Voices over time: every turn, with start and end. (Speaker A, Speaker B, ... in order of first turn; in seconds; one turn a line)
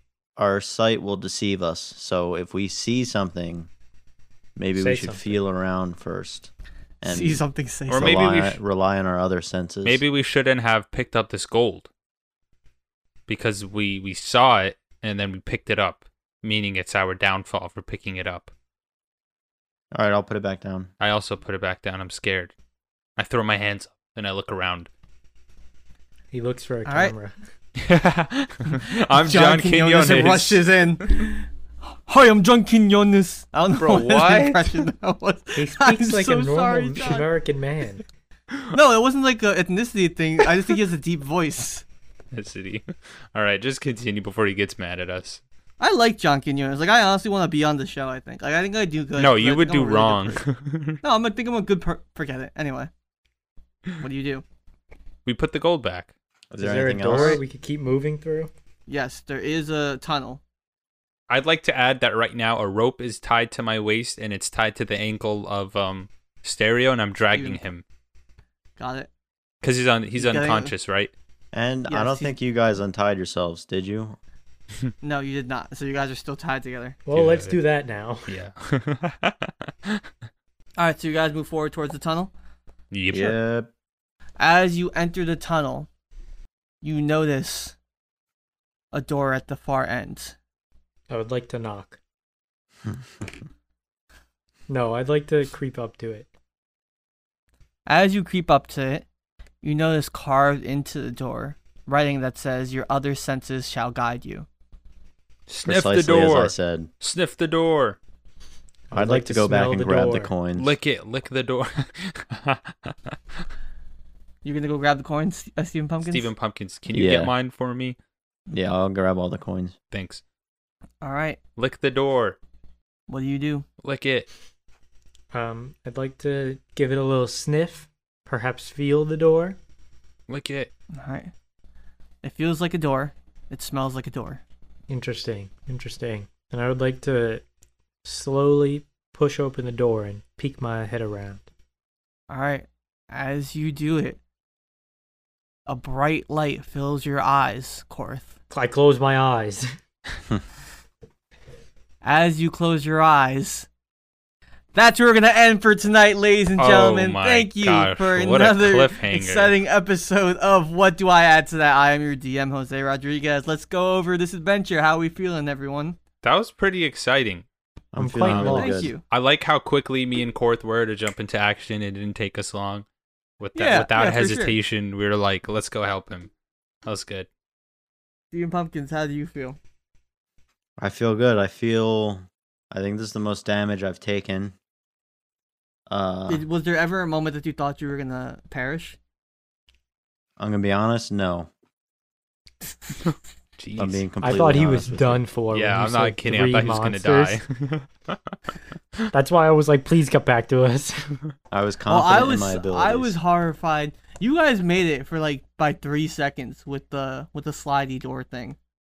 Speaker A: 0.4-3.7
Speaker A: 4.5-6.5
Speaker B: 4.7-5.3
Speaker A: 7.0-10.0
Speaker C: 7.0-8.3
Speaker D: 7.9-8.6
Speaker D: 9.8-11.9
Speaker D: 13.3-18.5
Speaker A: 19.9-20.9
Speaker D: 21.0-22.5
Speaker D: 23.2-24.9
Speaker B: 26.3-27.3
Speaker C: 26.9-27.1
Speaker D: 27.8-30.6
Speaker C: 28.7-31.5
Speaker C: 32.0-37.3
Speaker D: 33.8-34.9
Speaker B: 35.5-38.0
Speaker C: 38.7-41.8
Speaker D: 42.3-45.4
Speaker C: 45.8-50.4
Speaker D: 49.2-51.0
Speaker C: 51.0-52.9
Speaker C: 54.0-54.4
Speaker D: 55.2-56.1
Speaker A: 56.5-57.4
Speaker B: 56.6-58.5
Speaker C: 58.9-60.4
Speaker D: 61.3-67.8
Speaker C: 67.3-67.7
Speaker C: 68.8-69.1
Speaker D: 69.6-71.1
Speaker C: 70.2-70.7
Speaker A: 71.5-74.2
Speaker C: 71.9-72.3
Speaker C: 75.0-77.0
Speaker B: 77.0-78.3
Speaker D: 77.1-77.6
Speaker D: 78.3-80.0
Speaker C: 80.8-82.3
Speaker D: 82.9-83.4
Speaker A: 83.1-83.7
Speaker C: 84.4-85.9
Speaker C: 86.8-87.7
Speaker C: 88.9-90.3
Speaker B: 91.1-92.0
Speaker B: 94.7-96.3
Speaker C: 97.8-99.0
Speaker C: 99.6-104.5
Speaker D: 105.5-108.0
Speaker A: 105.7-106.9
Speaker B: 108.9-110.3
Speaker A: 108.9-110.7
Speaker D: 110.5-113.1
Speaker C: 114.4-116.3
Speaker D: 116.0-118.0
Speaker A: 116.9-117.3
Speaker A: 118.5-119.7
Speaker D: 119.9-120.2
Speaker C: 121.0-121.4
Speaker D: 121.6-122.4
Speaker C: 123.1-123.7
Speaker D: 123.8-124.3
Speaker B: 125.3-129.6
Speaker D: 130.3-130.7
Speaker C: 130.9-131.3
Speaker C: 132.2-134.4
Speaker B: 134.9-137.4
Speaker B: 138.0-141.4
Speaker C: 142.3-144.2
Speaker C: 145.7-148.3
Speaker B: 148.5-149.7
Speaker C: 152.0-153.7
Speaker C: 154.7-166.0
Speaker D: 156.6-159.5
Speaker D: 166.2-167.4
Speaker A: 167.9-168.9
Speaker B: 167.9-168.9
Speaker D: 168.3-172.8
Speaker C: 168.4-169.0
Speaker D: 173.4-176.3
Speaker C: 173.5-174.5
Speaker D: 176.8-177.3
Speaker C: 178.3-179.6
Speaker A: 180.8-184.6
Speaker A: 185.9-186.4
Speaker C: 186.3-189.0
Speaker A: 190.4-191.5
Speaker D: 193.6-194.0
Speaker A: 193.8-195.2
Speaker B: 194.2-197.4
Speaker D: 195.5-198.2
Speaker B: 199.1-201.1
Speaker A: 201.5-203.2
Speaker C: 201.9-208.6